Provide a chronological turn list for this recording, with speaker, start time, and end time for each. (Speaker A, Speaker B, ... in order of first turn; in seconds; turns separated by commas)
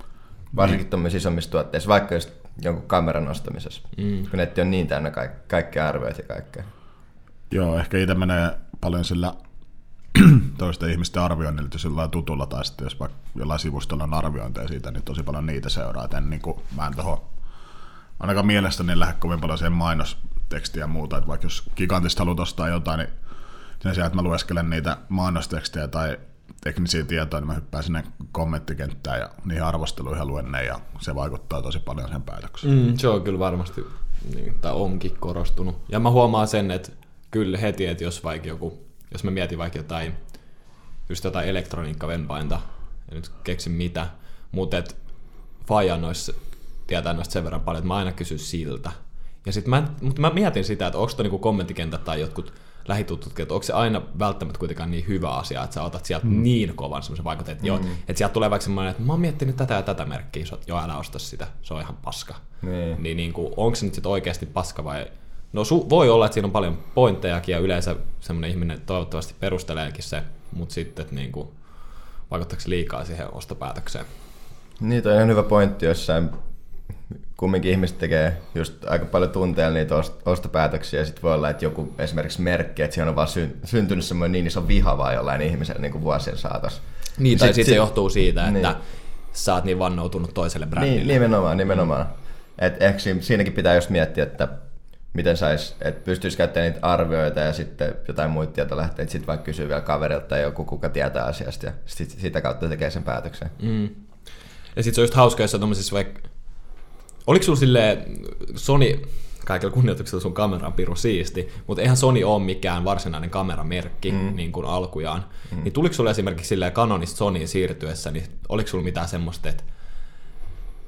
Speaker A: 0.5-6.7, Speaker B: 4.0-4.3, Speaker C: 7.5-9.4, Speaker C: 10.1-17.2, Speaker C: 18.2-23.1, Speaker C: 23.8-32.6, Speaker B: 32.6-62.4, Speaker A: 57.6-58.0, Speaker A: 62.6-63.0, Speaker B: 63.0-74.1, Speaker A: 74.8-76.3, Speaker A: 77.4-88.7, Speaker B: 87.2-88.8, Speaker B: 89.3-91.2, Speaker A: 90.8-94.6, Speaker A: 95.1-103.6, Speaker B: 103.6-104.1, Speaker B: 104.7-106.3, Speaker B: 107.3-119.7, Speaker A: 114.1-114.4